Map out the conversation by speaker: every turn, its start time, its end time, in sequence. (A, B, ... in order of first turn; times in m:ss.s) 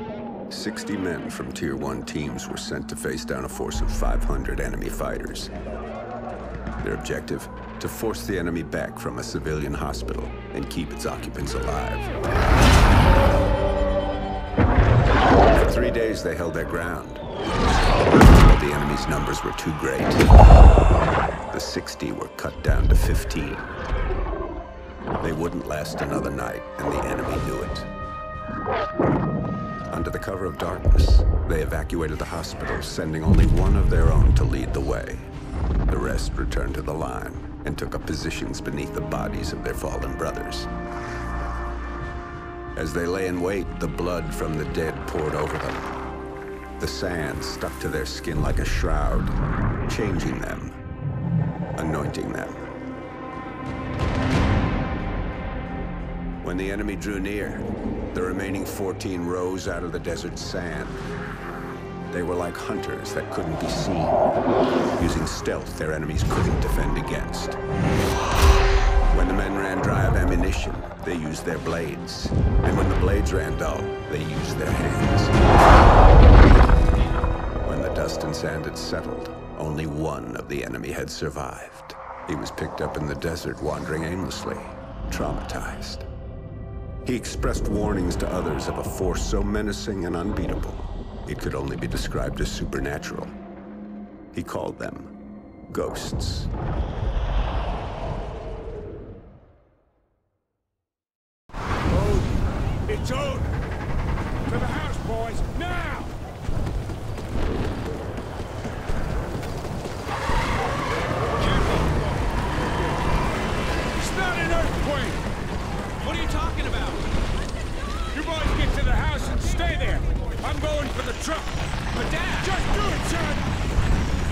0:00.5-0:05.5 A
0:06.8-0:12.1 A
0:15.5-0:17.2 A
0:18.2-0:20.3 A
0:21.5-0:23.7 A
0:25.2-0:27.9 A
0:29.9-0:35.3 A
0:35.9-0:40.7 A
0:42.8-0:45.8 A
0:46.8-0:50.8 A
0:51.8-0:52.7 A
0:56.4-1:01.0 A
1:02.1-1:04.2 A
1:05.0-1:07.6 A
1:09.1-1:15.3 A
1:17.6-1:26.1 A
1:27.0-1:33.4 A
1:34.3-1:35.1 A
1:35.7-1:36.5 A
1:42.9-1:43.5 B
1:44.5-1:46.1 B
1:51.5-1:51.9 B
1:54.0-1:55.1 C
1:54.0-1:55.2 B
1:56.0-1:57.0 C
1:58.2-2:01.5 B
1:58.3-2:03.0 C
2:02.4-2:03.4 B